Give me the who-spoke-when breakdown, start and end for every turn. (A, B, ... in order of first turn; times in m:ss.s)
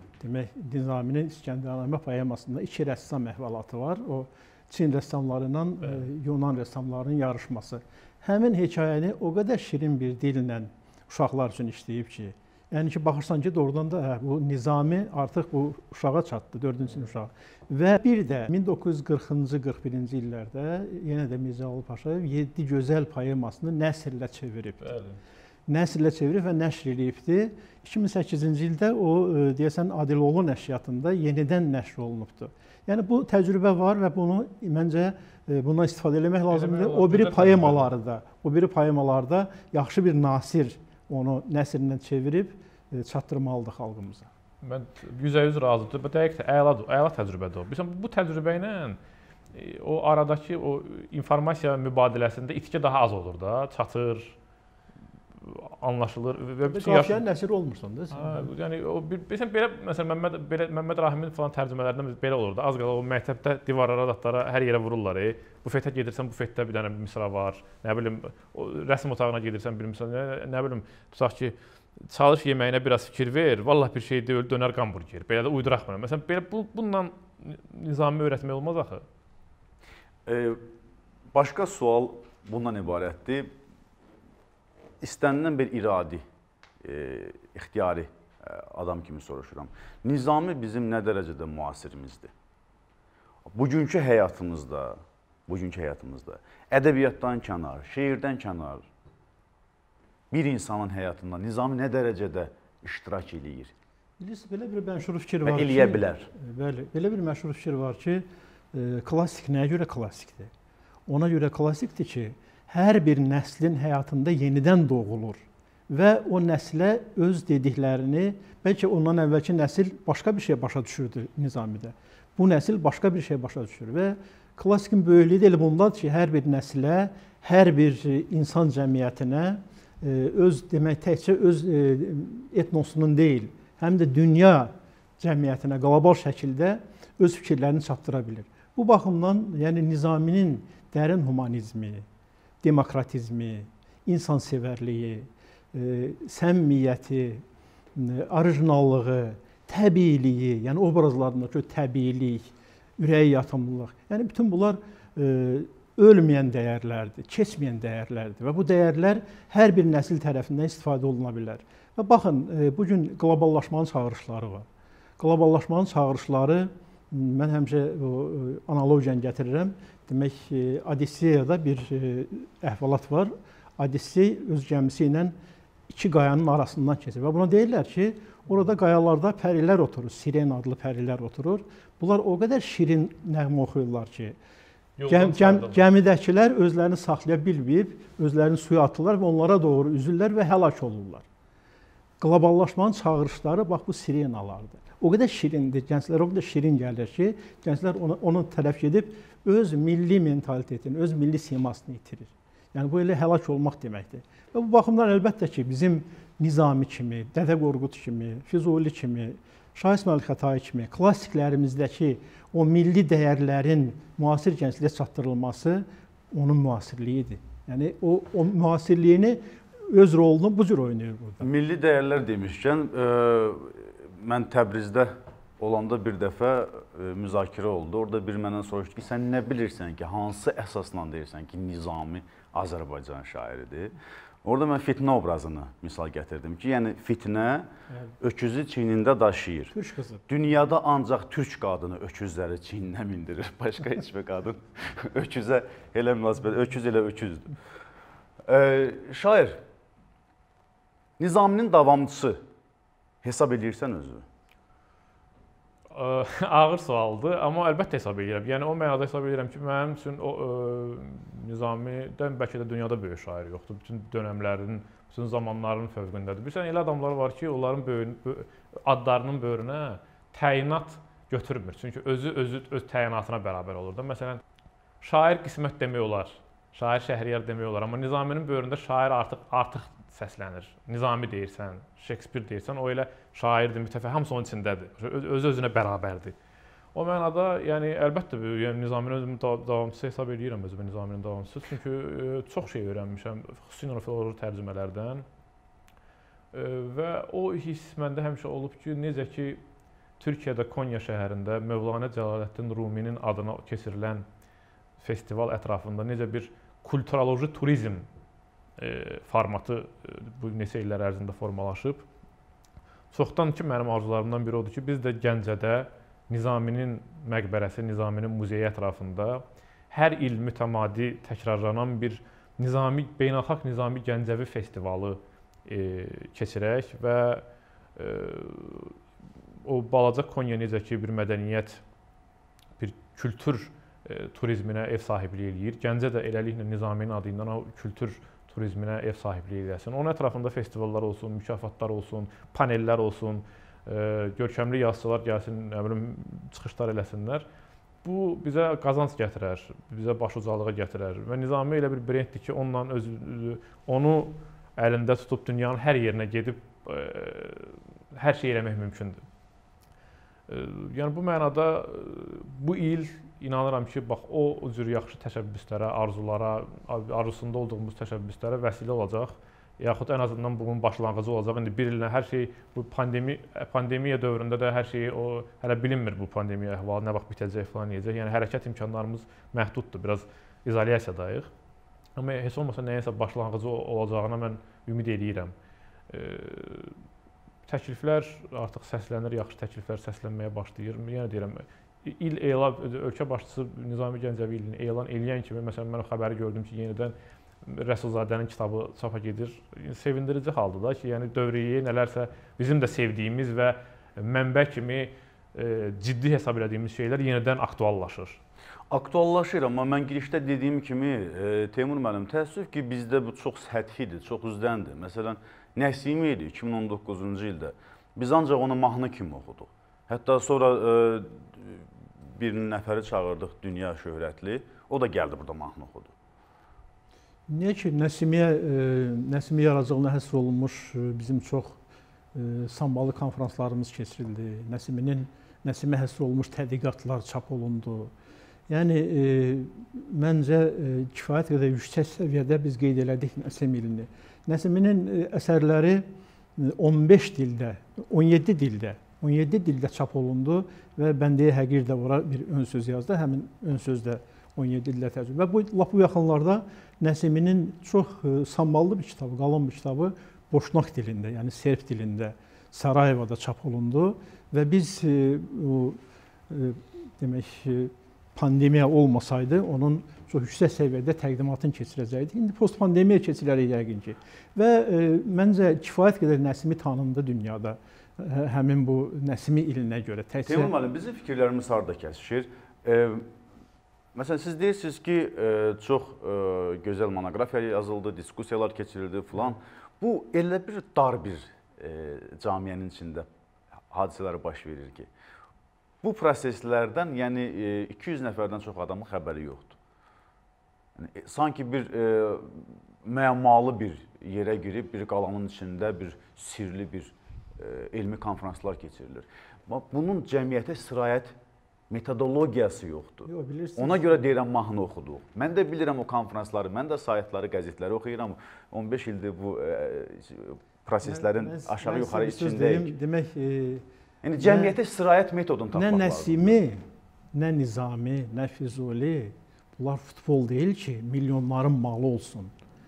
0:00.2-0:25.0 A
0:24.8-0:25.2 B
0:25.7-0:44.3 A
0:36.5-0:37.9 B
0:44.6-0:49.0 B
0:49.5-0:54.4 B
0:55.4-0:57.2 B
0:56.6-0:58.5 A
0:58.1-1:19.0 B
1:20.3-1:20.6 C
1:21.3-1:23.5 C
1:25.0-1:26.2 C
1:26.8-1:32.3 C
1:33.5-1:38.9 C
1:40.3-1:43.7 C
1:44.2-1:50.5 A
1:45.4-1:46.3 C
1:51.1-2:22.1 A
2:22.6-2:27.4 A
2:28.0-2:44.6 A
2:45.2-2:55.3 A
2:55.9-3:04.4 A
3:05.0-3:05.8 B
3:05.1-3:11.2 A
3:12.2-3:41.5 A
3:41.4-3:57.7 C
3:58.2-3:59.7 C
3:59.7-4:00.2 A
4:00.3-4:07.5 C
4:08.4-4:09.6 C
4:11.2-4:12.4 C
4:13.2-4:14.2 C
4:15.9-4:34.4 B
4:35.0-4:46.4 B
4:46.9-4:55.2 B
4:56.5-4:59.6 B
5:00.2-5:04.2 B
5:05.0-5:08.1 B
5:08.8-5:12.0 B
5:13.1-5:27.4 B
5:28.0-5:29.0 B
5:29.6-5:31.8 B
5:32.8-5:47.4 B
5:48.0-5:59.2 B
6:00.5-6:21.5 B
6:22.2-6:25.5 B
6:26.1-6:27.0 B
6:27.7-6:48.4 B
6:48.9-7:06.1 C
7:07.5-7:11.8 A
7:12.4-7:18.1 A
7:18.7-7:26.1 A
7:26.6-7:46.0 A
7:46.5-8:00.7 A
8:00.4-8:03.3 C
8:04.1-8:13.3 C
8:13.9-8:15.1 C
8:16.0-8:19.8 C
8:21.0-8:31.3 C
8:31.9-8:42.9 C
8:33.3-8:34.2 A
8:41.0-8:43.8 A
8:44.2-8:46.6 C
8:44.4-8:44.8 A
8:45.7-8:52.5 A